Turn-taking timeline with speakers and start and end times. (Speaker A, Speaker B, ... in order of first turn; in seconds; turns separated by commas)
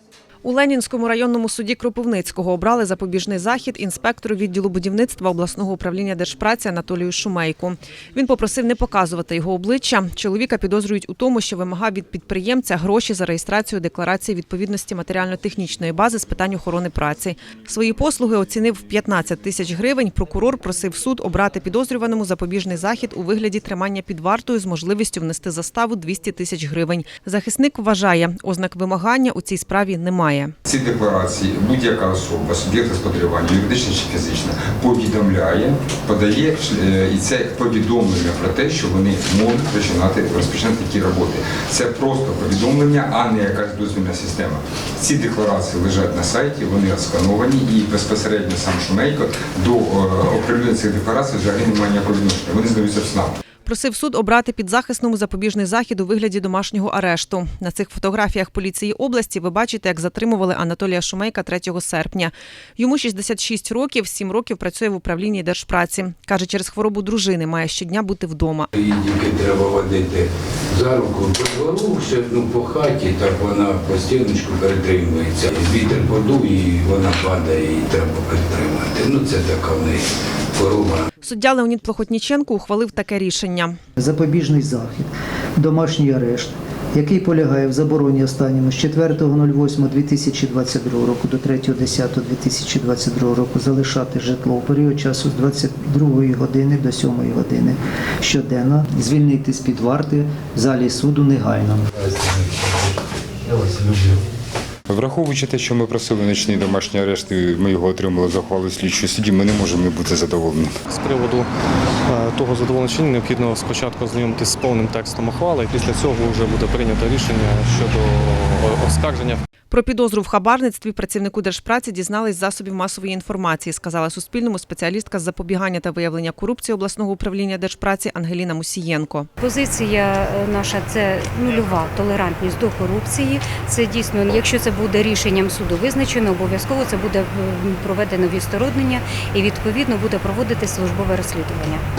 Speaker A: 0.4-30.5, Speaker B: 30.7-53.3, Speaker A: 53.6-68.7, Speaker C: 68.8-81.1, Speaker A: 81.2-83.8, Speaker D: 84.0-101.9, Speaker C: 102.0-102.9, Speaker C: 103.5-104.2, Speaker B: 104.9-110.7, Speaker E: 110.9-111.5, Speaker E: 112.1-119.4, Speaker A: 119.7-129.3, Speaker F: 129.4-141.8